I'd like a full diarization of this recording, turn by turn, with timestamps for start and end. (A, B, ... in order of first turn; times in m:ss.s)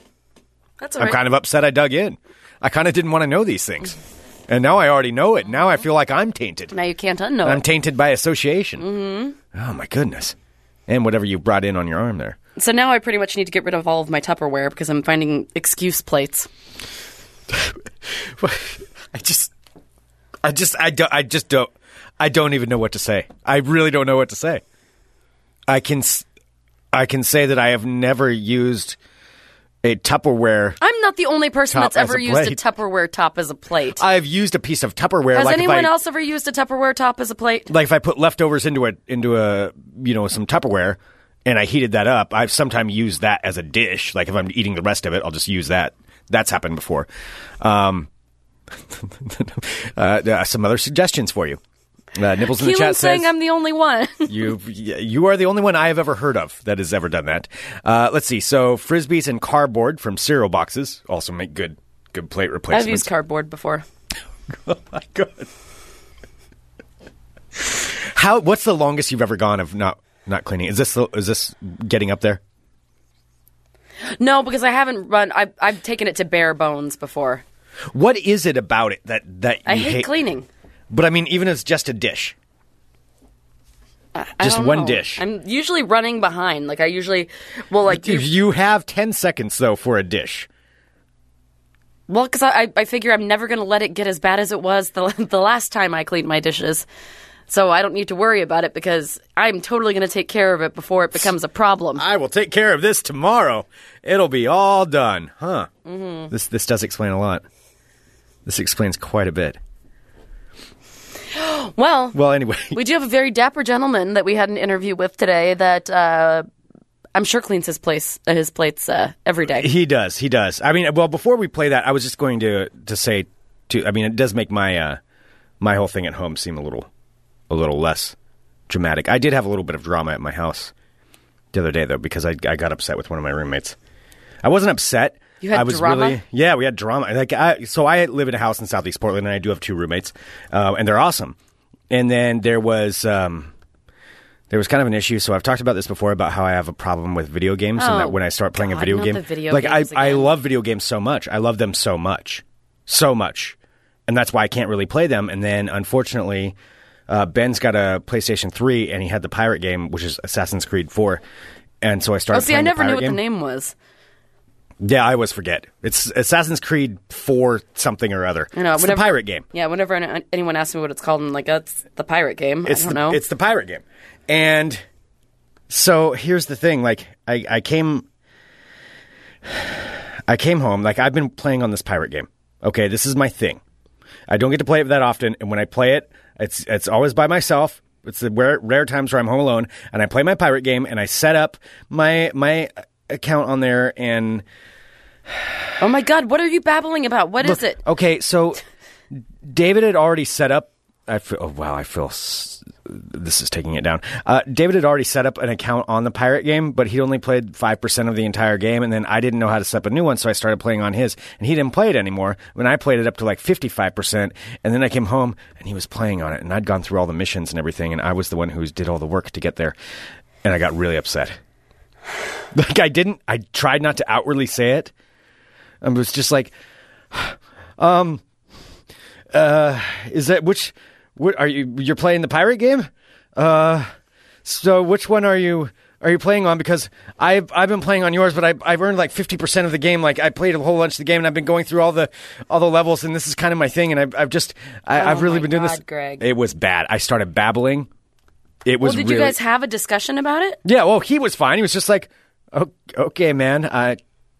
0:00.8-0:01.2 A
0:01.0-0:04.0 B
0:04.5-0:06.7 B
0:06.7-0:07.6 A
0:07.4-0:08.8 B
0:08.8-0:09.4 A
0:09.5-0:10.3 B
0:10.9-0:12.4 B
0:12.6-0:16.5 A
0:17.5-0:19.5 B
0:20.4-0:24.6 B
0:25.7-0:26.2 B
0:26.9-0:29.0 B
0:29.8-0:30.8 B
0:30.8-0:34.0 A
0:31.7-0:32.6 B
0:34.0-0:35.9 B
0:35.3-0:37.7 A
0:37.7-0:47.1 B
0:47.6-0:48.1 B
0:48.9-0:51.6 B
0:52.1-0:53.3 B
0:52.5-0:54.5 A
0:54.3-1:03.1 B
1:02.7-1:03.8 A
1:04.6-1:05.5 B
1:07.6-1:12.4 B
1:14.2-1:17.4 A
1:17.9-1:20.1 B
1:19.6-1:20.5 A
1:20.9-1:22.3 B
1:24.1-1:28.3 A
1:24.4-1:25.2 B
1:27.9-1:30.5 B
1:32.1-1:36.8 A
1:37.5-1:42.0 A
1:41.9-1:45.7 B
1:45.8-1:46.3 A
1:46.3-1:47.4 B
1:48.4-1:49.6 B
1:51.3-1:52.2 A
1:52.1-1:52.8 B
1:52.7-1:56.4 A
1:57.1-1:59.7 A
1:59.5-2:05.0 B
2:05.6-2:06.9 B
2:07.5-2:08.1 B
2:08.7-2:10.7 B
2:11.5-2:13.8 B
2:14.4-2:21.4 B
2:15.4-2:16.2 A
2:21.9-2:23.5 B
2:24.5-2:33.6 B
2:27.8-2:30.3 A
2:34.1-2:36.5 B
2:37.1-2:41.2 B
2:41.8-2:43.2 B
2:42.3-2:43.7 A
2:44.8-2:49.4 B
2:48.5-2:53.2 A
2:52.6-2:54.8 B
2:55.7-2:58.0 B
2:59.5-3:03.6 B
3:04.3-3:14.4 B
3:15.8-3:17.8 A
3:17.4-3:18.6 B
3:19.4-3:39.7 B
3:40.4-3:41.4 B
3:42.5-3:44.9 B
3:45.8-3:46.5 B
3:47.1-3:48.2 B
3:49.3-3:53.9 B
3:54.4-4:07.9 B
4:04.9-4:06.2 A
4:08.6-4:09.4 B
4:08.8-4:10.6 A
4:10.6-4:14.0 B